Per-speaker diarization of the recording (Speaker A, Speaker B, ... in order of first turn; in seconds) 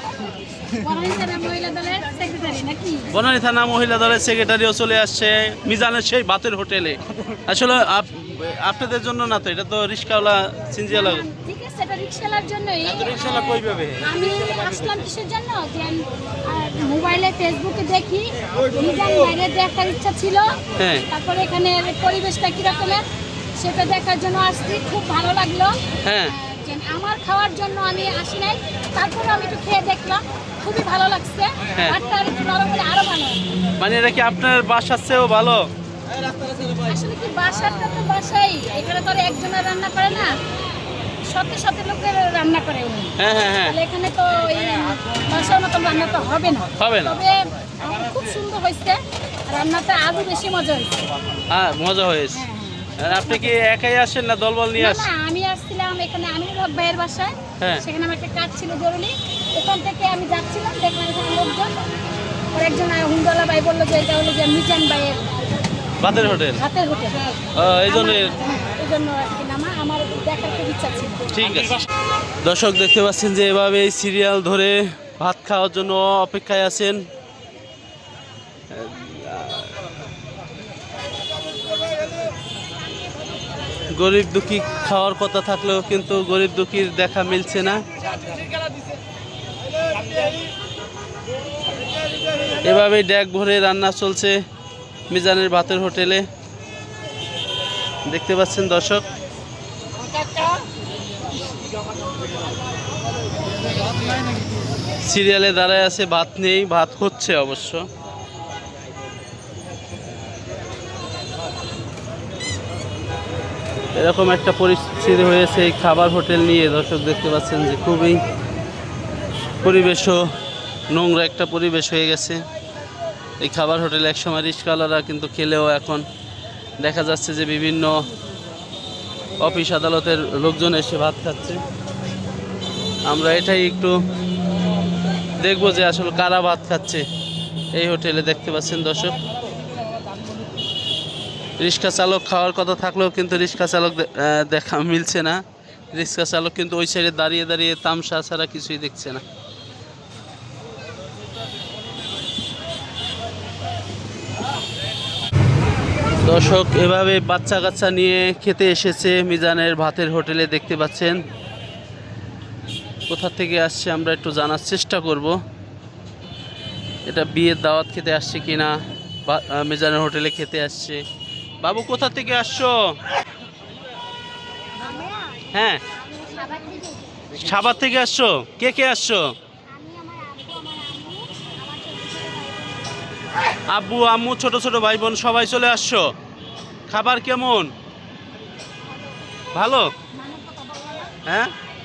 Speaker A: 0.7-3.1, 10.9-23.0, 23.6-25.8, 26.3-33.4, 36.8-40.3, 41.3-49.0, 49.5-51.0, 52.3-53.5, 54.7-61.7, 62.5-65.3, 66.2-67.3, 67.8-71.3, 174.8-177.4, 179.7-183.2, 190.1-191.1
Speaker B: 3.1-11.2, 13.5-14.0, 20.8-21.1, 26.0-26.3, 33.8-35.7, 43.2-43.8, 46.8-47.2, 51.5-52.5, 53.0-55.1, 66.0-66.6, 67.5-68.4, 71.3-71.8, 72.4-77.1, 78.7-79.8, 83.9-87.8, 92.6-94.4, 95.1-96.3, 98.1-99.0, 105.0-107.9, 114.0-118.2, 119.6-120.3, 120.9-122.4, 123.4-126.1, 126.8-128.1, 129.4-131.6, 133.1-134.0, 135.4-137.1, 137.7-139.2, 141.6-145.4, 145.9-149.2, 156.2-161.2, 163.1-165.4, 167.1-171.0, 171.6-173.0, 175.5-175.8, 177.3-179.3, 183.7-186.1, 186.9-187.7, 189.5-189.9, 191.2-191.5